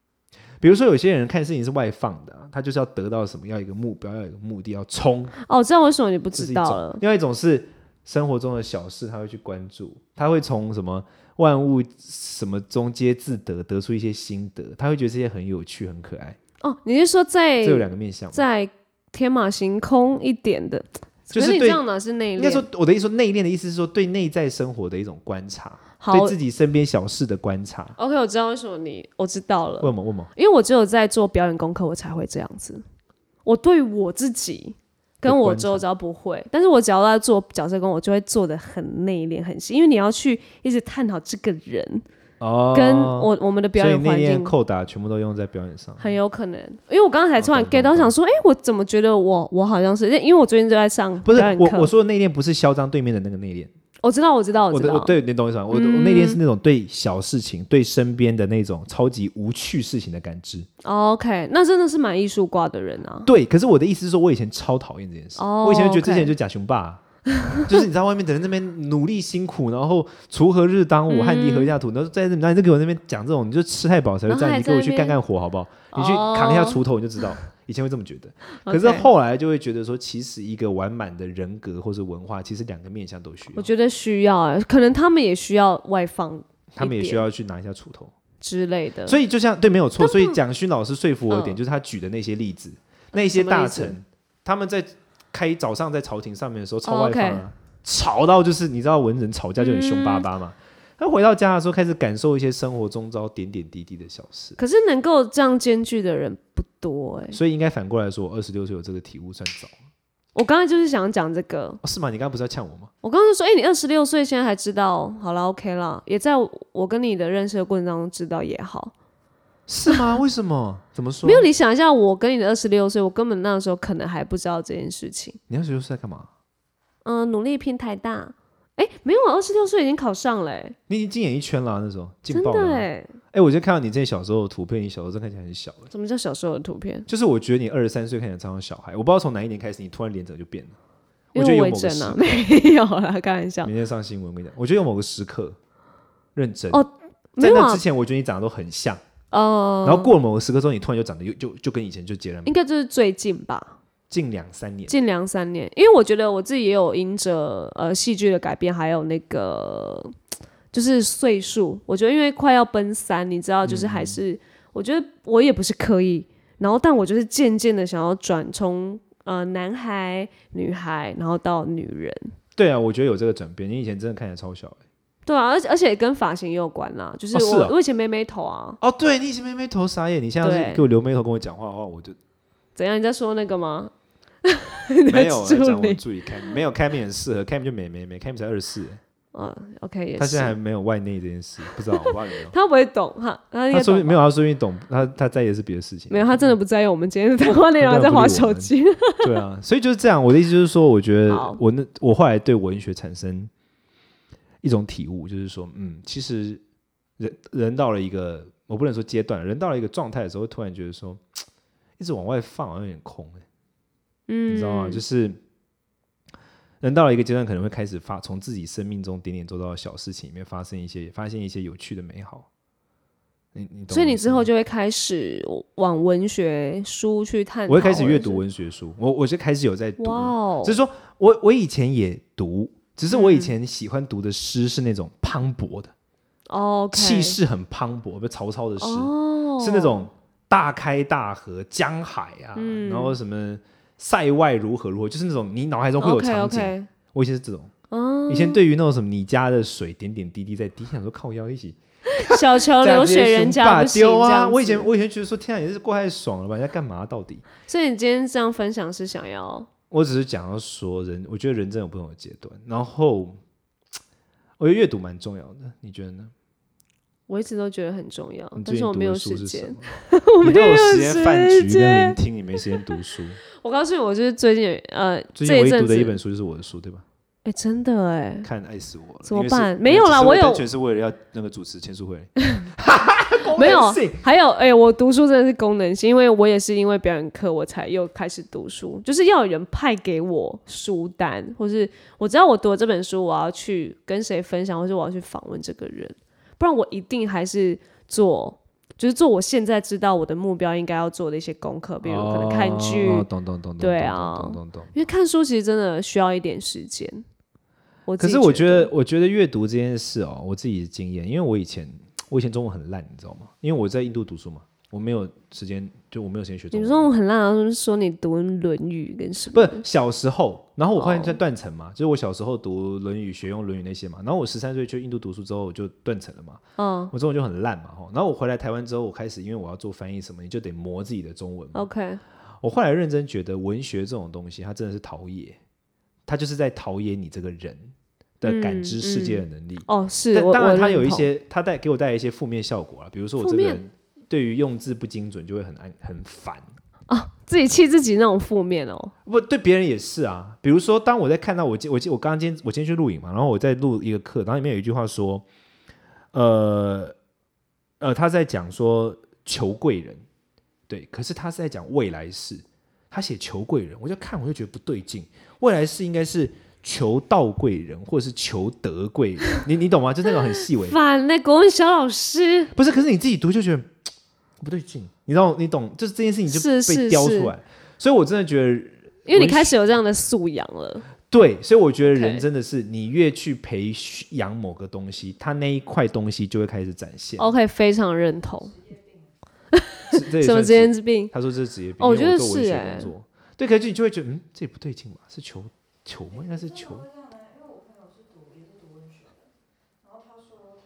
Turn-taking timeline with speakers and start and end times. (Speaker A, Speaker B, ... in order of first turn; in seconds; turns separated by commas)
Speaker A: 0.6-5.4, Speaker B: 5.4-7.0, Speaker A: 6.3-16.4, Speaker B: 16.6-22.7, Speaker A: 17.6-18.4, Speaker A: 21.3-21.8, Speaker A: 22.4-28.0, Speaker B: 26.0-26.4, Speaker B: 28.0-32.8, Speaker A: 29.8-30.3, Speaker B: 33.5-42.0, Speaker A: 35.2-35.8, Speaker A: 42.4-46.1, Speaker B: 42.7-44.5, Speaker B: 46.0-51.9, Speaker A: 47.4-48.1, Speaker A: 51.2-53.7, Speaker B: 54.0-55.1, Speaker A: 54.7-60.7, Speaker B: 55.7-56.4, Speaker B: 60.8-63.3, Speaker A: 63.2-67.0, Speaker B: 65.4-66.3, Speaker A: 67.5-83.7, Speaker B: 71.1-71.7, Speaker B: 74.3-75.2, Speaker B: 75.9-76.8, Speaker B: 78.6-79.1, Speaker B: 83.5-87.2, Speaker A: 86.8-88.1, Speaker B: 88.4-89.2, Speaker A: 89.1-104.6, Speaker B: 90.0-90.4, Speaker B: 91.3-91.6, Speaker B: 93.1-94.0, Speaker B: 96.8-97.5, Speaker B: 99.6-100.3, Speaker B: 104.6-107.4, Speaker A: 107.3-109.7, Speaker B: 110.3-111.8, Speaker A: 111.8-112.9, Speaker B: 113.0-118.9, Speaker A: 119.7-121.5, Speaker B: 121.2-125.4, Speaker A: 125.5-126.3, Speaker B: 127.0-130.8, Speaker A: 130.9-135.9, Speaker B: 132.3-133.2, Speaker B: 135.9-137.1, Speaker A: 137.1-140.8, Speaker B: 141.3-143.7, Speaker A: 141.3-142.4, Speaker A: 143.6-145.6, Speaker A: 146.4-146.8, Speaker B: 146.7-147.8, Speaker A: 147.4-149.0, Speaker B: 149.3-150.1, Speaker A: 149.8-152.5, Speaker B: 152.4-153.8, Speaker A: 154.1-155.0, Speaker B: 154.9-160.1, Speaker B: 160.7-172.3, Speaker A: 163.7-164.2, Speaker A: 172.6-174.8, Speaker B: 175.3-178.8, Speaker A: 177.3-177.7, Speaker A: 178.8-182.2, Speaker B: 180.4-180.8, Speaker B: 182.8-183.9, Speaker B: 184.4-186.0, Speaker A: 185.1-189.0, Speaker B: 189.3-190.5, Speaker A: 190.2-192.6, Speaker B: 192.5-194.2, Speaker A: 193.7-196.5, Speaker B: 196.1-199.3, Speaker A: 197.8-203.5, Speaker B: 201.3-201.6, Speaker A: 204.6-206.6, Speaker A: 207.2-211.2, Speaker A: 212.0-213.4, Speaker B: 214.3-215.0, Speaker A: 214.5-215.4, Speaker A: 216.8-222.5, Speaker A: 223.6-224.5, Speaker B: 223.9-228.4, Speaker A: 227.7-235.9, Speaker B: 230.0-230.8, Speaker B: 233.1-233.5, Speaker B: 236.5-237.4, Speaker A: 236.9-247.7, Speaker B: 238.8-240.1, Speaker B: 242.6-243.2, Speaker B: 246.0-246.9, Speaker B: 247.9-248.6, Speaker A: 248.3-257.5, Speaker B: 252.2-254.9, Speaker B: 257.7-259.7, Speaker A: 259.9-263.4, Speaker A: 264.6-266.3, Speaker B: 267.3-272.2, Speaker A: 268.6-273.4, Speaker B: 273.6-276.2, Speaker A: 275.4-277.1, Speaker B: 277.4-278.5, Speaker A: 278.4-284.2, Speaker B: 279.2-280.6, Speaker B: 283.6-303.3, Speaker A: 302.0-305.1, Speaker B: 303.8-307.2, Speaker B: 308.1-308.9, Speaker A: 308.2-317.1, Speaker B: 316.7-319.8, Speaker A: 319.5-331.9, Speaker B: 321.0-321.4, Speaker B: 326.8-327.1, Speaker B: 331.7-332.2, Speaker A: 332.6-335.6, Speaker A: 336.3-346.7, Speaker B: 338.4-341.3, Speaker B: 343.4-343.8, Speaker B: 347.1-349.1, Speaker A: 349.3-355.5, Speaker A: 356.3-357.1, Speaker A: 358.0-360.2, Speaker A: 360.9-371.0, Speaker B: 370.8-372.7, Speaker A: 372.7-373.9, Speaker A: 374.6-379.8, Speaker B: 376.5-377.5, Speaker B: 379.3-381.1, Speaker A: 381.3-387.5, Speaker B: 382.1-382.4, Speaker B: 387.4-388.8, Speaker B: 389.7-391.3, Speaker A: 390.1-397.1, Speaker B: 392.0-393.1